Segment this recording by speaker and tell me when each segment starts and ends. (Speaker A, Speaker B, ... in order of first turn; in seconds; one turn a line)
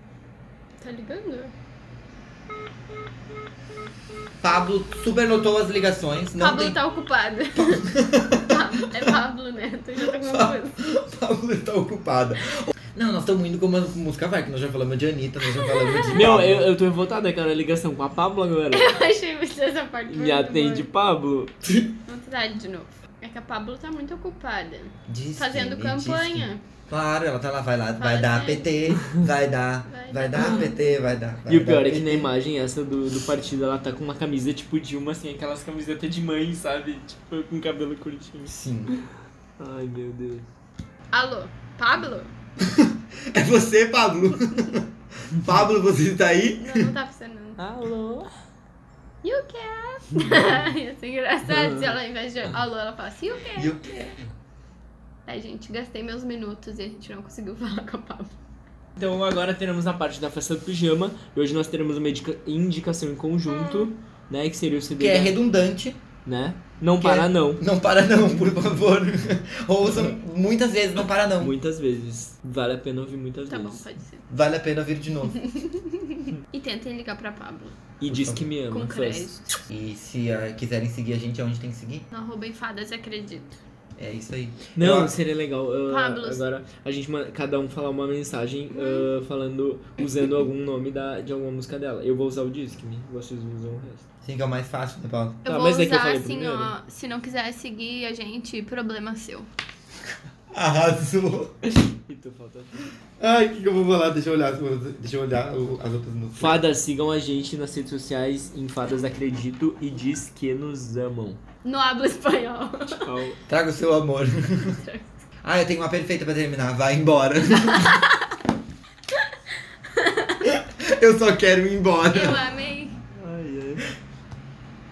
Speaker A: 0.8-1.5
Speaker B: 4.4-6.8
Speaker A: 6.4-7.9
Speaker B: 7.5-9.1
Speaker A: 8.5-10.8
Speaker B: 10.2-16.7
Speaker A: 15.6-16.3
Speaker C: 16.1-19.0
Speaker A: 18.7-20.9
Speaker C: 20.1-21.5
Speaker B: 21.6-21.9
Speaker A: 22.1-26.6
Speaker B: 25.1-32.3
Speaker A: 28.0-28.8
Speaker A: 29.9-30.9
Speaker C: 30.4-30.6
Speaker C: 31.5-39.1
Speaker B: 38.5-38.9
Speaker C: 39.6-40.4
Speaker A: 41.1-42.3
Speaker B: 42.6-46.9
Speaker A: 46.6-47.6
Speaker C: 47.6-48.3
Speaker A: 49.2-53.7
Speaker C: 51.5-51.9
Speaker B: 53.5-54.2
Speaker A: 55.2-58.3
Speaker C: 59.0-65.3
Speaker A: 63.5-63.9
Speaker B: 65.0-66.0
Speaker C: 66.2-67.6
Speaker B: 67.0-71.5
Speaker C: 71.4-73.8
Speaker A: 73.5-74.2
Speaker B: 74.3-75.4
Speaker A: 75.3-77.8
Speaker C: 78.0-79.3
Speaker B: 78.1-78.5
Speaker A: 78.7-79.5
Speaker B: 79.7-82.0
Speaker A: 82.1-83.5
Speaker B: 84.0-85.1
Speaker C: 84.7-94.0
Speaker A: 85.9-86.4
Speaker A: 88.7-89.0
Speaker B: 94.2-95.4
Speaker A: 95.4-99.5
Speaker C: 95.5-96.7
Speaker B: 100.5-101.5
Speaker C: 101.9-102.8
Speaker B: 103.2-106.6
Speaker C: 106.4-111.4
Speaker A: 111.6-113.1
Speaker C: 113.0-113.4
Speaker B: 113.5-114.8
Speaker A: 114.6-115.1
Speaker B: 115.4-118.0
Speaker A: 117.6-118.0
Speaker A: 119.9-120.4
Speaker B: 120.4-122.4
Speaker A: 122.1-123.0
Speaker C: 123.2-123.9